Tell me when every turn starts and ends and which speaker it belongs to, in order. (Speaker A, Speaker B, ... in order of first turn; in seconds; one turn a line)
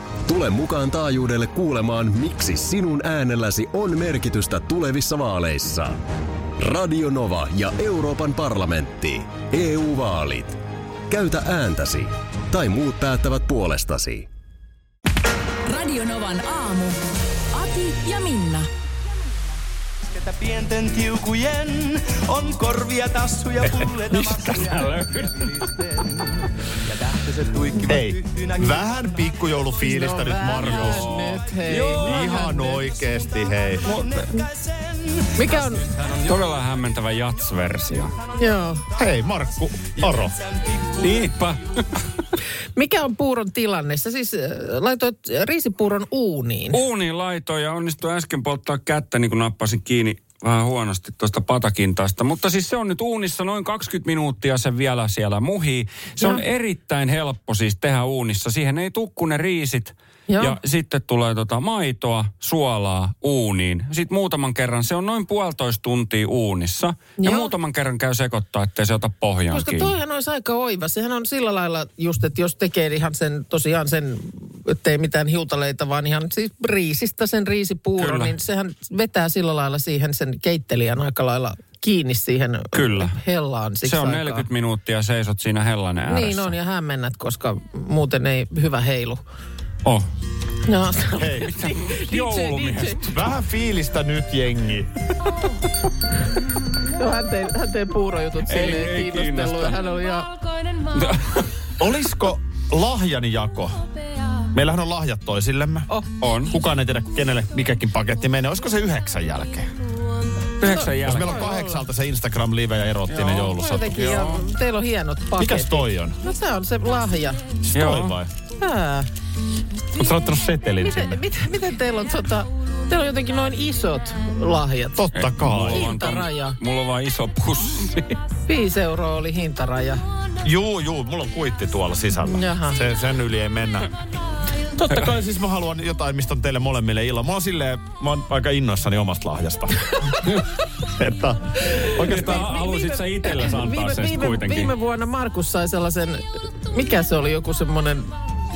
Speaker A: 0.2-6.0
Speaker A: 6.6-14.3
Speaker B: 15.7-17.0
Speaker B: 17.5-18.7
Speaker C: 20.1-29.3
Speaker D: 24.1-25.7
Speaker E: 27.9-31.1
Speaker F: 29.8-32.8
Speaker D: 30.7-32.2
Speaker C: 31.8-36.5
Speaker E: 31.9-34.1
Speaker F: 35.4-35.9
Speaker D: 36.2-38.1
Speaker C: 38.3-39.1
Speaker F: 38.4-38.8
Speaker E: 39.0-40.4
Speaker C: 40.0-41.3
Speaker D: 41.0-42.0
Speaker F: 42.7-46.8
Speaker D: 46.7-69.9
Speaker F: 60.3-60.6
Speaker F: 67.2-67.5
Speaker F: 69.5-84.5
Speaker D: 78.0-78.3
Speaker D: 82.7-83.2
Speaker D: 83.8-86.5
Speaker F: 86.1-89.2
Speaker F: 90.7-93.0
Speaker E: 91.2-91.5
Speaker D: 91.4-93.3
Speaker E: 93.1-94.9
Speaker F: 96.9-100.3
Speaker D: 98.5-99.8
Speaker D: 100.9-101.5
Speaker E: 101.8-103.8
Speaker E: 104.5-105.9
Speaker D: 106.2-106.5
Speaker E: 106.4-109.7
Speaker D: 110.6-111.4
Speaker F: 110.7-111.8
Speaker E: 111.0-114.0
Speaker D: 113.1-114.5
Speaker F: 113.5-117.4
Speaker E: 115.4-116.2
Speaker E: 117.6-118.3
Speaker D: 117.7-118.2
Speaker F: 118.6-119.1
Speaker E: 119.9-121.2
Speaker F: 120.8-125.1
Speaker E: 124.9-126.0
Speaker D: 125.1-128.2
Speaker F: 125.7-126.6
Speaker F: 128.5-130.0
Speaker E: 130.4-133.9
Speaker F: 132.2-132.8
Speaker E: 134.7-140.3
Speaker E: 140.8-142.6
Speaker F: 141.7-148.1
Speaker D: 141.8-144.7